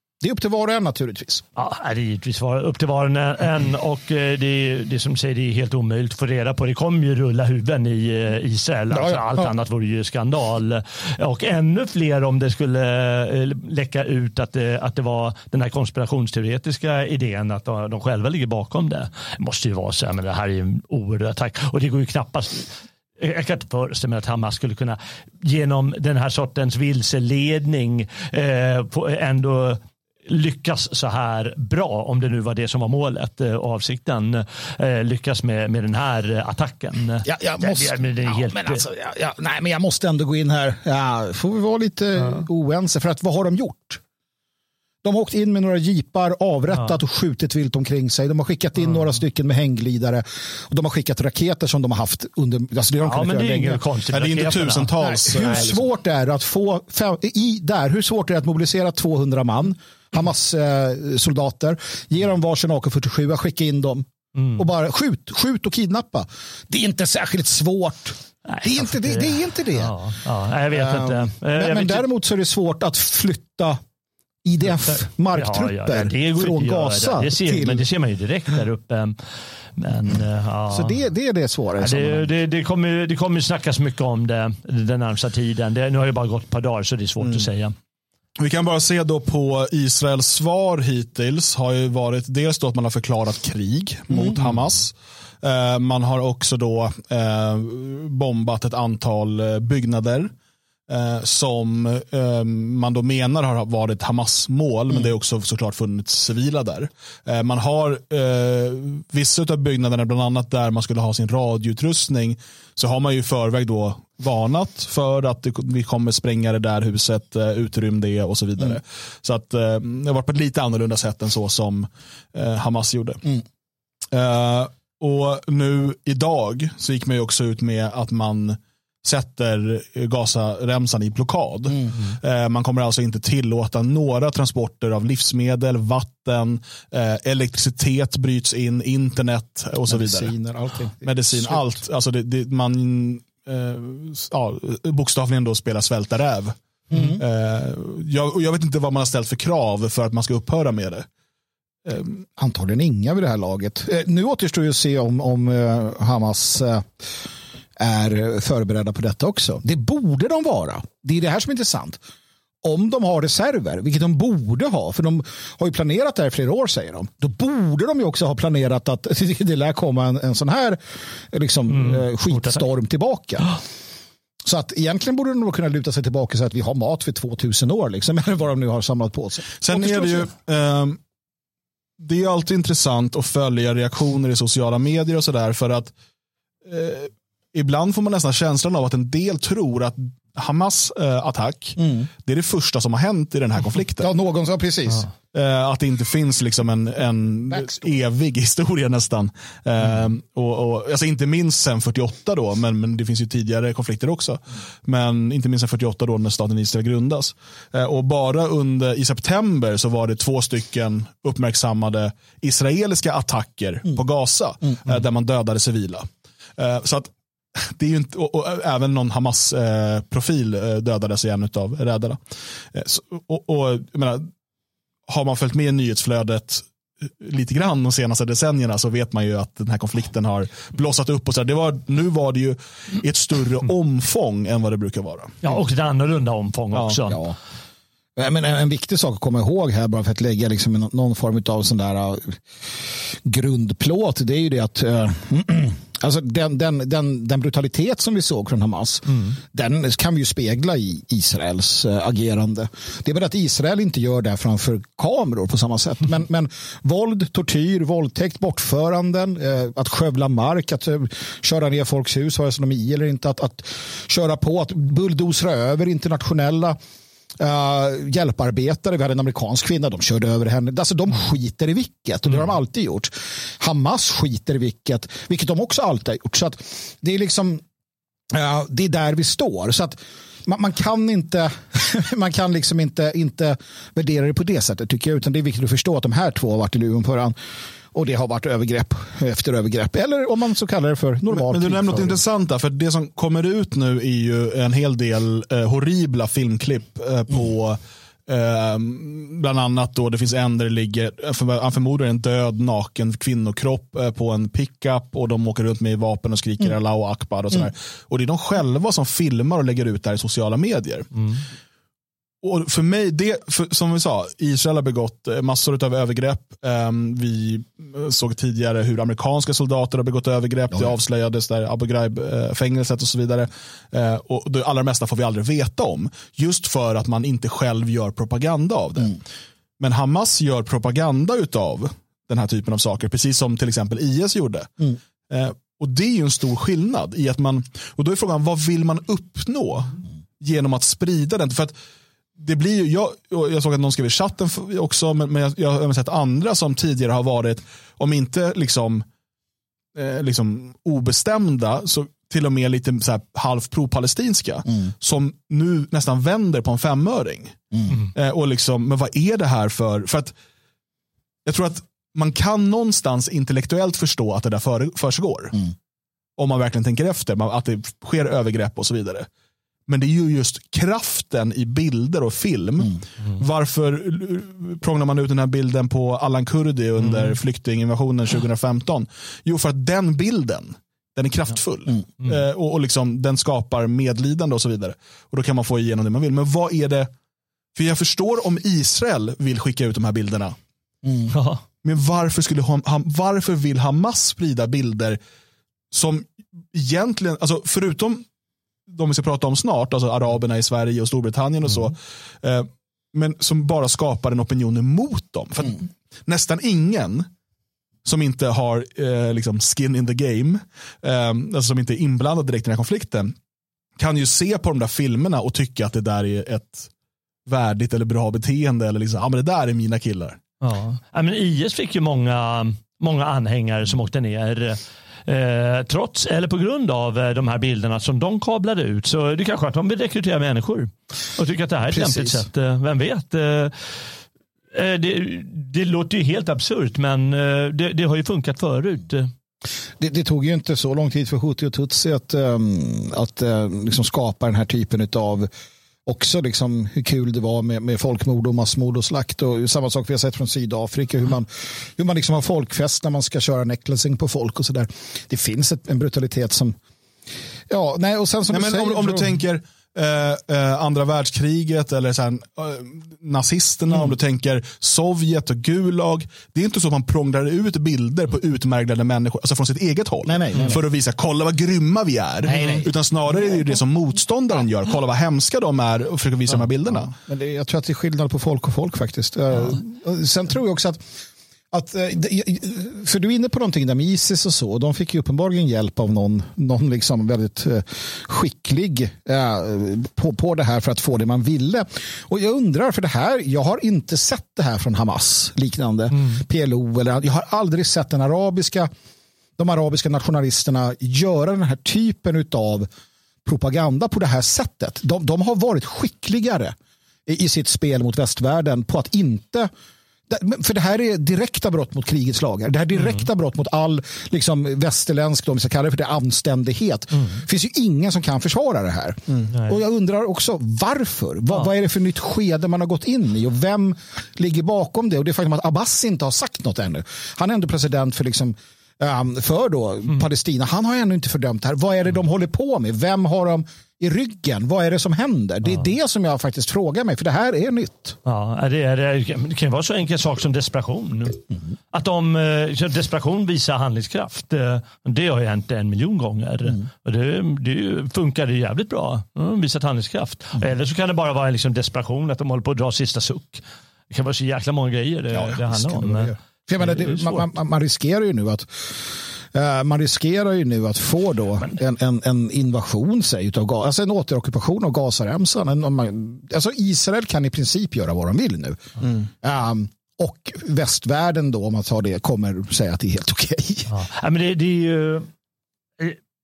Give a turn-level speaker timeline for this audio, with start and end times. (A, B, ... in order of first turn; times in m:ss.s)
0:00.2-0:01.4 A
0:01.6-0:38.8 B
0:08.9-0:09.5 A
0:37.2-0:44.0 A
0:45.0-0:53.8 A
0:53.0-0:54.9 B
0:54.1-0:55.8 C
0:55.0-1:09.9 A
1:04.4-1:04.6 B
1:08.5-1:12.0 B
1:10.7-1:13.8 A
1:14.4-1:17.9 A
1:15.3-1:19.2 B
1:19.8-1:21.0 B
1:20.7-1:22.3 A
1:21.8-1:27.7 B
1:28.4-1:40.3 C
1:34.1-1:34.4 A
1:40.9-2:03.3 C
2:04.1-2:20.3 C
2:19.9-2:21.6 A
2:21.0-2:31.0 C
2:26.9-2:27.2 A
2:31.9-2:32.2 C
2:32.4-2:36.9 A
2:37.8-2:42.0 A
2:42.6-2:50.8 A
2:51.3-2:53.6 A
2:51.7-2:52.6 B
2:54.4-3:00.3 A
2:59.6-3:01.0 C
3:02.0-3:05.9 C
3:06.6-3:14.1 C
3:11.8-3:12.1 A
3:14.0-3:15.1 A
3:15.3-3:42.2 C
3:42.7-3:44.3 C
3:45.1-3:55.4 C
3:55.4-3:57.2 B
3:57.0-3:57.4 A
3:58.2-4:02.4 A
4:02.9-4:26.8 A
4:27.4-4:37.6 A
4:38.3-4:47.4 A
4:47.9-4:52.2 A
4:51.3-5:11.3 C
5:12.4-5:29.2 C
5:29.8-5:41.8 C
5:42.4-5:49.0 C
5:50.0-6:00.3 C
6:01.5-6:05.6 C
6:06.4-6:09.3 C
6:09.9-6:27.1 C
6:27.8-6:30.6 C
6:31.0-6:31.3 A
6:31.3-6:31.6 B
6:31.8-6:35.2 C
6:35.9-6:38.2 C
6:38.9-6:47.3 C
6:48.0-6:53.3 C
6:54.0-6:56.9 C
6:57.5-7:00.4 C
7:00.6-7:13.8 B
7:11.9-7:12.4 A
7:14.7-7:19.3 B
7:20.0-7:25.5 A
7:26.0-7:36.8 A
7:37.7-7:39.3 A
7:38.5-7:57.1 C
7:50.2-7:50.8 A
7:52.5-7:52.8 A
7:57.1-8:01.0 A
8:01.7-8:18.9 A
8:16.2-8:16.4 B
8:19.6-8:22.9 A
8:23.4-8:26.8 A
8:27.3-8:29.7 A
8:30.3-8:58.2 A
8:39.5-8:39.8 B
8:58.2-9:17.5 B
9:15.7-9:28.8 A
9:29.3-9:33.9 A
9:33.9-9:35.3 B